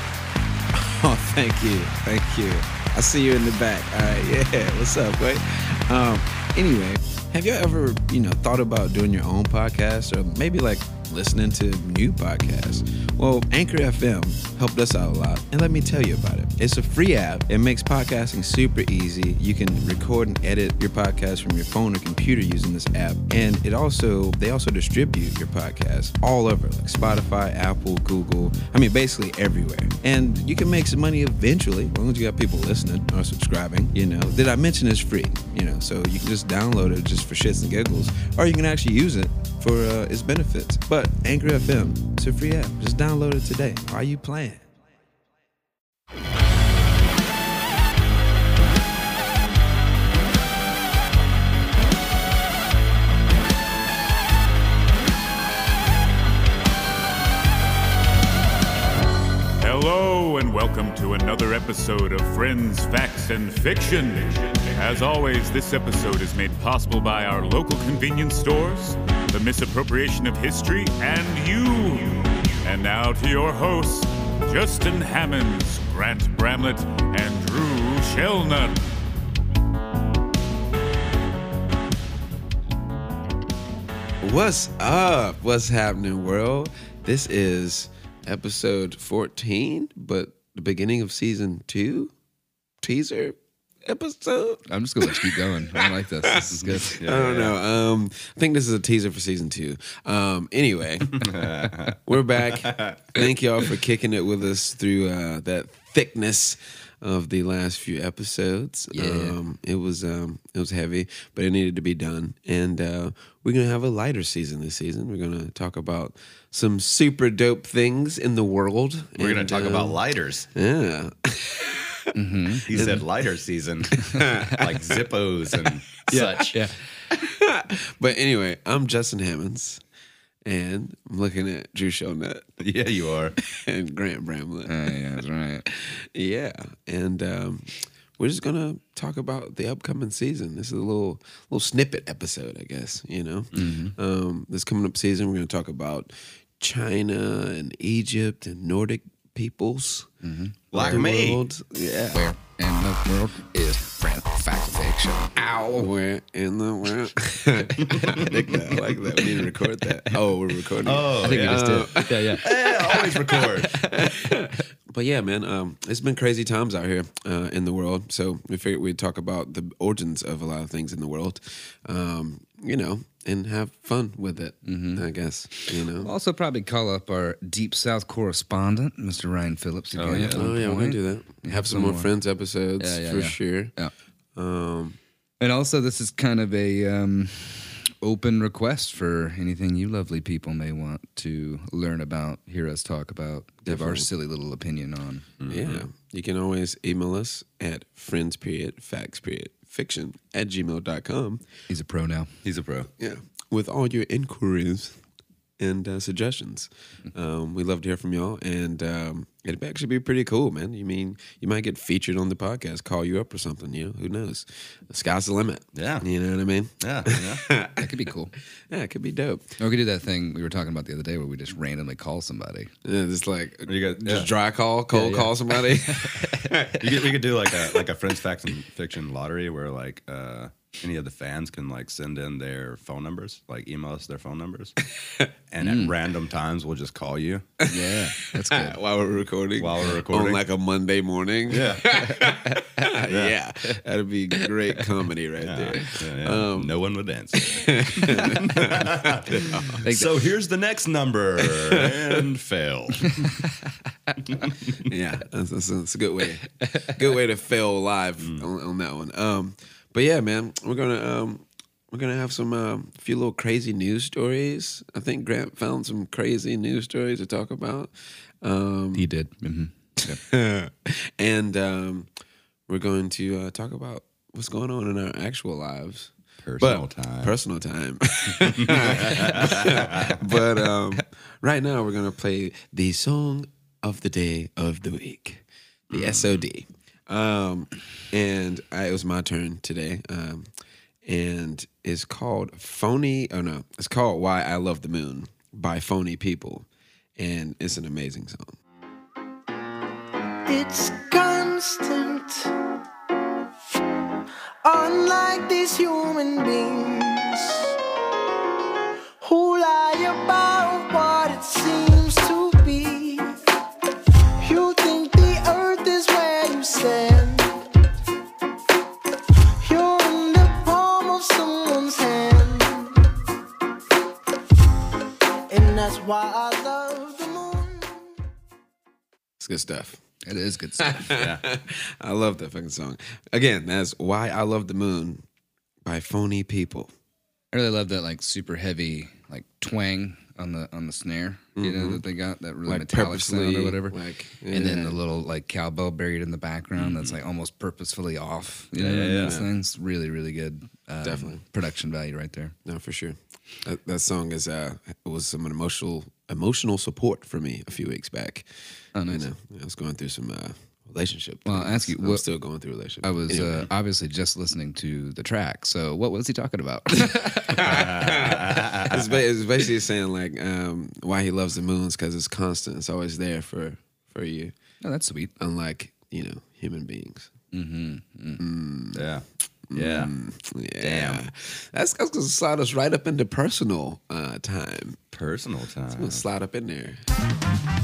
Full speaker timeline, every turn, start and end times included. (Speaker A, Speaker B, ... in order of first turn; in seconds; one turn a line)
Speaker A: 0.7-44.7
Speaker B: 59.6-78.8
Speaker A: 84.2-92.1
Speaker A: 92.8-101.3
Speaker C: 94.7-97.0
Speaker D: 96.5-97.6
Speaker D: 101.2-103.2
Speaker A: 101.9-122.1
Speaker C: 108.9-109.4
Speaker D: 119.2-120.5
Speaker C: 122.1-123.0
Speaker D: 122.6-126.6
Speaker A: 124.0-124.7
Speaker C: 124.2-124.5
Speaker C: 126.1-126.8
Speaker A: 127.1-129.8
Speaker A: 130.4-132.5
Speaker D: 132.6-133.4
Speaker A: 133.4-134.9
Speaker C: 134.7-135.7
Speaker A: 135.7-150.1
Speaker C: 143.6-143.9
Speaker C: 150.2-151.0
Speaker D: 150.7-151.4
Speaker A: 150.7-152.2
Speaker C: 152.1-155.9
Speaker A: 155.7-176.1
Speaker D: 157.8-158.8
Speaker D: 160.8-163.9
Speaker C: 161.2-162.4
Speaker C: 174.7-182.1
Speaker D: 179.9-180.5
Speaker A: 180.2-183.7
Speaker C: 182.8-183.9
Speaker A: 184.3-185.0
Speaker C: 185.4-195.3
Speaker A: 193.7-194.1
Speaker D: 195.4-195.8
Speaker A: 195.5-201.4
Speaker C: 201.7-202.3
Speaker D: 202.4-202.9
Speaker A: 203.0-205.0
Speaker A: 205.6-218.1
Speaker D: 215.8-216.1
Speaker D: 216.8-217.5
Speaker C: 217.8-218.3
Speaker A: 218.7-219.6
Speaker C: 219.6-222.7
Speaker A: 222.8-227.8
Speaker D: 223.7-224.3
Speaker C: 224.9-226.4
Speaker D: 226.7-234.8
Speaker A: 235.0-235.3
Speaker D: 235.5-237.6
Speaker C: 235.6-235.9
Speaker A: 237.6-246.7
Speaker C: 237.7-238.8
Speaker D: 239.6-240.4
Speaker D: 241.5-242.4
Speaker D: 243.0-243.4
Speaker D: 245.4-253.5
Speaker A: 247.3-249.9
Speaker C: 249.8-250.1
Speaker A: 251.4-252.2
Speaker D: 254.2-254.9
Speaker A: 254.8-269.1
Speaker C: 268.9-270.2
Speaker A: 270.1-272.1
Speaker A: 272.7-290.5
Speaker D: 276.4-277.4
Speaker D: 278.4-280.2
Speaker D: 285.9-286.4
Speaker A: 291.1-296.7
Speaker A: 297.2-298.6
Speaker E: 300.5-302.5
Speaker E: 304.6-307.8
Speaker E: 309.2-313.3
Speaker E: 314.4-317.7
Speaker E: 319.6-323.0
Speaker E: 325.5-328.1
Speaker A: 329.4-330.0
Speaker C: 330.2-331.1
Speaker A: 330.8-335.2
Speaker D: 331.1-331.4
Speaker A: 335.8-336.9
Speaker C: 337.5-344.0
Speaker A: 341.6-342.0
Speaker A: 342.7-345.0
Speaker C: 344.5-352.5
Speaker D: 346.8-347.2
Speaker D: 348.8-349.4
Speaker A: 349.2-349.5
Speaker A: 351.0-351.4
Speaker A: 352.6-358.5
Speaker C: 358.9-359.3
Speaker A: 359.1-363.7
Speaker C: 361.4-362.2
Speaker C: 363.0-368.4
Speaker A: 367.5-374.5
Speaker D: 367.6-369.1
Speaker C: 374.8-375.3
Speaker A: 375.4-377.3
Speaker C: 377.5-378.4
Speaker A: 378.4-379.0
Speaker D: 378.9-380.1
Speaker A: 379.7-385.0
Speaker D: 380.8-381.3
Speaker D: 385.1-386.2
Speaker A: 385.9-387.1